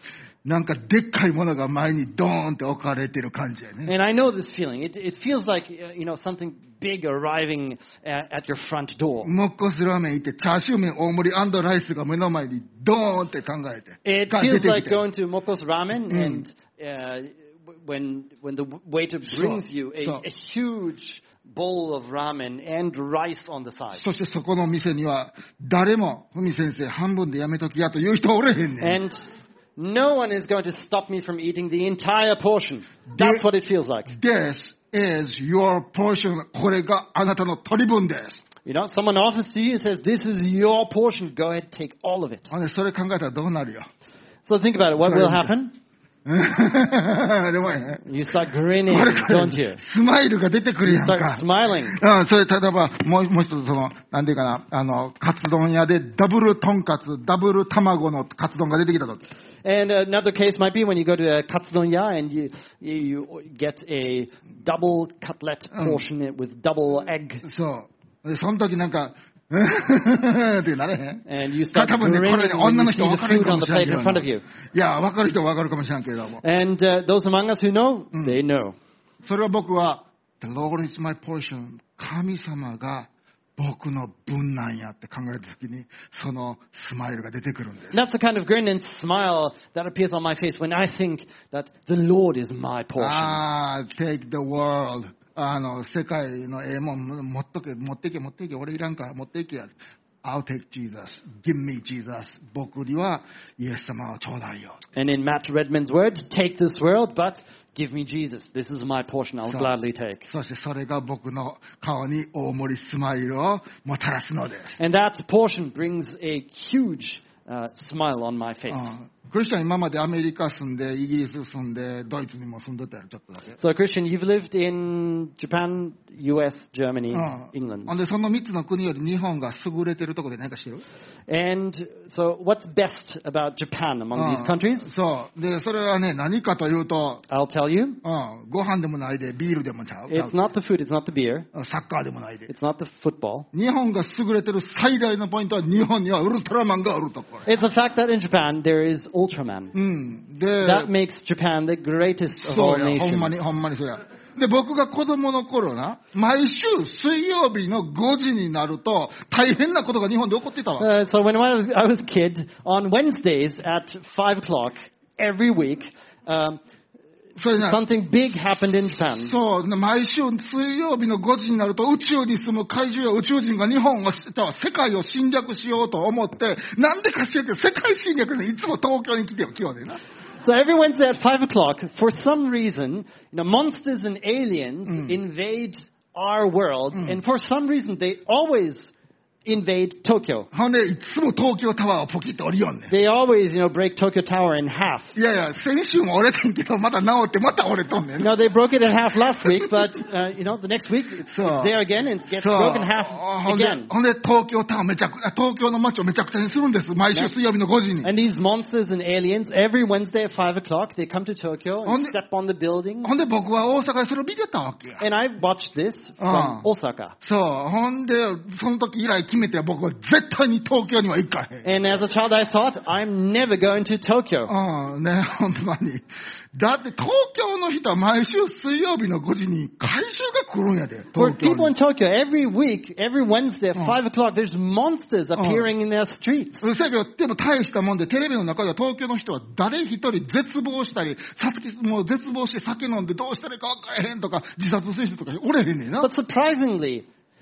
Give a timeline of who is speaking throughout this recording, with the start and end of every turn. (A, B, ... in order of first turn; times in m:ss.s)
0:00.4-0:03.9 A
0:03.8-0:09.3 B
0:09.2-0:15.0 A
0:14.0-0:24.0 B
0:16.1-0:16.4 A
0:19.2-0:20.2 A
0:23.9-0:29.0 A
0:28.8-0:29.2 B
0:29.8-0:34.1 B
0:33.1-0:33.4 A
0:34.1-0:38.4 A
0:38.6-0:42.5 B
0:42.5-0:43.9 A
0:44.4-0:45.7 B
0:45.0-0:45.5 A
0:46.2-0:48.0 A
0:48.0-0:49.8 B
0:48.9-0:59.3 A
0:50.8-0:52.0 B
0:59.6-1:07.4 B
1:05.7-1:06.0 A
1:07.4-1:16.4 A
1:11.2-1:14.4 B
1:16.4-1:18.8 B
1:19.2-1:28.0 A
1:27.9-1:33.4 B
1:33.0-1:39.7 A
1:40.2-1:44.8 A
1:44.9-1:50.2 B
1:49.4-1:49.7 A
1:50.2-1:54.8 A
1:54.8-1:58.9 B
1:58.7-2:03.6 A
2:03.6-2:07.9 B
2:07.1-2:10.8 A
2:11.3-2:14.9 B
2:14.1-2:17.2 A
2:17.3-2:18.0 B
2:18.0-2:20.3 A
2:20.1-2:21.5 B
2:21.5-2:22.5 A
2:22.5-2:23.5 B
2:23.5-2:27.5 A
2:27.4-2:29.7 B
2:29.7-2:30.9 A
2:30.6-2:33.3 B
2:32.4-2:40.8 A
2:40.8-2:46.6 B
2:47.4-2:47.8 A
2:47.5-2:49.3 B
2:49.1-3:00.0 A
3:00.4-3:08.9 B
3:04.9-3:05.1 A
3:06.9-3:07.2 A
3:09.4-3:10.5 B
3:10.5-3:12.9 A
3:12.9-3:15.1 B
3:15.1-3:18.3 A
3:18.2-3:23.9 B
3:21.2-3:21.7 A
3:22.3-3:28.1 A
3:28.0-3:33.1 B
3:31.8-3:32.2 A
3:33.0-3:35.0 A
3:35.0-3:37.2 B
3:36.2-3:36.6 A
3:37.2-3:41.7 A
3:41.6-3:44.5 B
3:44.5-3:51.7 A
3:51.2-3:56.6 B
3:55.4-3:55.7 A
3:56.6-4:06.1 A
4:06.0-4:07.0 B